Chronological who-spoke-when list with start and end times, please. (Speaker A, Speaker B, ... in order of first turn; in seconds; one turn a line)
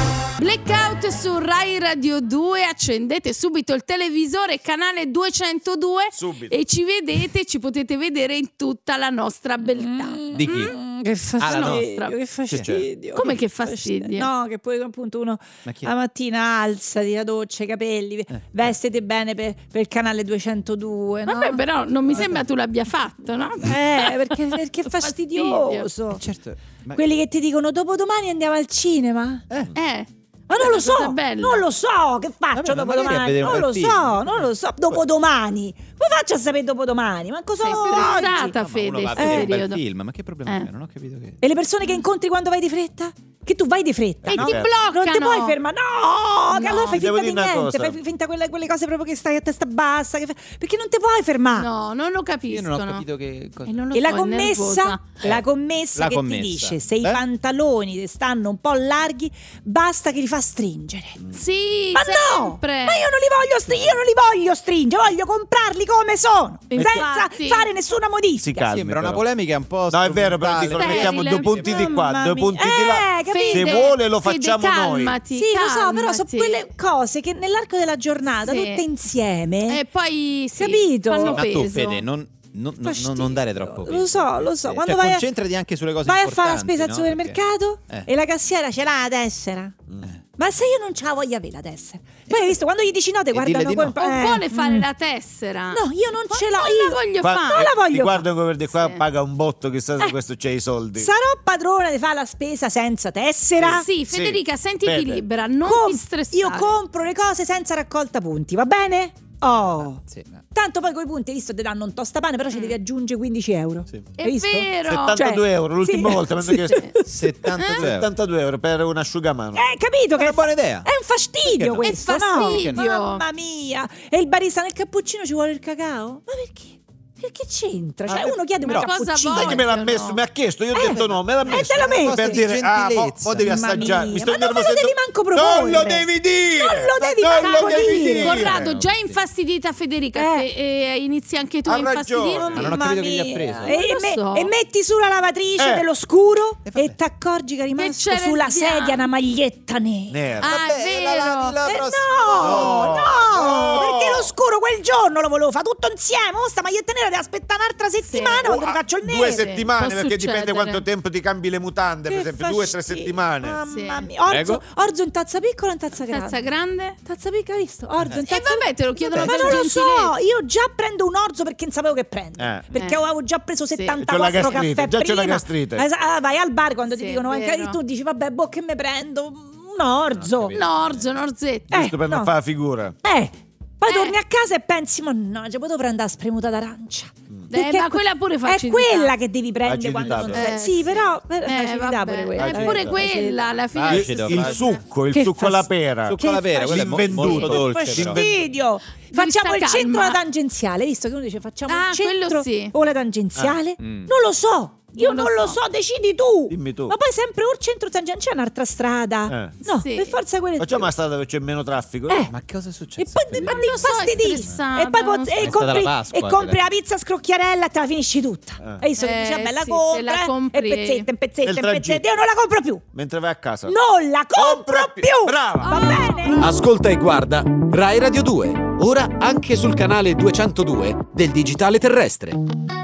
Speaker A: 0.4-10.7
Speaker B: 6.1-6.6
Speaker C: 9.6-21.6
Speaker D: 10.3-10.7
Speaker D: 11.4-11.8
Speaker A: 11.4-12.1
Speaker B: 12.5-12.8
Speaker A: 13.1-14.3
Speaker D: 15.6-15.9
Speaker A: 21.3-24.1
Speaker D: 22.1-22.4
Speaker C: 23.6-26.2
Speaker A: 24.9-25.9
Speaker D: 26.1-27.0
Speaker C: 26.9-29.4
Speaker A: 29.8-31.6
Speaker C: 30.5-38.5
Speaker D: 32.5-34.4
Speaker A: 37.6-39.8
Speaker D: 37.8-41.4
Speaker C: 39.1-39.5
Speaker C: 41.4-51.7
Speaker B: 44.2-44.7
Speaker A: 44.3-45.6
Speaker A: 46.5-47.0
Speaker B: 46.9-48.0
Speaker A: 51.5-53.0
Speaker D: 52.5-53.7
Speaker A: 53.6-55.0
Speaker C: 53.9-61.2
Speaker D: 55.9-57.2
Speaker A: 61.3-63.0
Speaker C: 61.9-68.7
Speaker A: 66.7-67.7
Speaker B: 66.7-67.0
Speaker B: 68.4-69.2
Speaker D: 68.6-71.8
Speaker B: 69.9-75.2
Speaker A: 70.8-71.6
Speaker C: 71.5-73.9
Speaker A: 73.3-76.7
Speaker C: 75.3-79.8
Speaker A: 78.4-78.9
Speaker A: 79.7-82.0
Speaker C: 80.6-81.5
Speaker D: 81.2-88.1
Speaker C: 82.8-85.3
Speaker C: 86.0-89.7
Speaker B: 89.9-90.1
Speaker C: 90.4-94.8
Speaker D: 93.3-94.0
Speaker A: 94.0-97.7
Speaker C: 95.7-98.3
Speaker B: 97.2-101.1
Speaker C: 101.0-103.9
Speaker B: 103.6-105.2
Speaker A: 103.8-106.7
Speaker C: 105.6-117.1
Speaker D: 110.0-110.4
Speaker A: 114.2-115.2
Speaker B: 114.8-116.9
Speaker A: 116.7-117.0
Speaker D: 117.0-118.1
Speaker A: 117.6-117.9
Speaker B: 117.7-119.7
Speaker C: 119.5-129.7
Speaker D: 120.2-120.9
Speaker D: 121.5-122.8
Speaker A: 121.8-123.2
Speaker B: 128.1-138.8
Speaker A: 128.6-130.2
Speaker C: 130.7-132.4
Speaker D: 131.8-134.0
Speaker C: 133.4-138.4
Speaker A: 137.3-142.7
Speaker D: 138.2-139.2
Speaker C: 140.1-140.5
Speaker B: 141.7-142.7
Speaker C: 142.4-150.2
Speaker D: 142.5-143.7
Speaker A: 143.6-144.5
Speaker B: 145.6-145.9
Speaker D: 146.6-146.9
Speaker A: 147.8-149.0
Speaker B: 150.1-150.6
Speaker A: 150.4-151.6
Speaker D: 150.4-153.0
Speaker C: 151.6-159.6
Speaker B: 152.3-154.3
Speaker A: 158.0-158.5
Speaker B: 158.4-163.6
Speaker A: 159.4-160.8
Speaker C: 162.1-166.4
Speaker A: 163.7-164.1
Speaker D: 164.2-164.6
Speaker A: 166.1-167.0
Speaker C: 167.0-180.6
Speaker A: 168.3-170.1
Speaker D: 169.1-169.6
Speaker B: 172.4-172.7
Speaker A: 172.7-173.0
Speaker B: 174.0-175.8
Speaker A: 176.9-177.8
Speaker D: 180.1-181.1
Speaker A: 180.5-181.7
Speaker B: 181.7-182.9
Speaker C: 181.7-182.3
Speaker C: 183.0-193.4
Speaker A: 183.9-184.1
Speaker A: 187.5-189.1
Speaker B: 189.6-190.5
Speaker A: 190.3-194.7
Speaker B: 192.4-193.0
Speaker D: 193.7-194.6
Speaker B: 193.9-198.5
Speaker C: 195.1-210.9
Speaker D: 196.1-198.2
Speaker A: 199.1-200.2
Speaker A: 201.7-202.7
Speaker D: 203.8-204.1
Speaker A: 204.9-205.6
Speaker B: 206.5-206.9
Speaker B: 209.3-209.6
Speaker A: 209.6-210.2
Speaker B: 210.6-212.2
Speaker C: 212.1-212.3
Speaker D: 212.3-213.8
Speaker C: 213.0-222.8
Speaker A: 213.4-215.7
Speaker D: 215.4-216.6
Speaker A: 219.0-221.1
Speaker B: 221.4-222.1
Speaker B: 222.9-223.8
Speaker C: 223.7-226.5
Speaker B: 224.3-226.0
Speaker A: 225.7-226.3
Speaker E: 226.3-232.4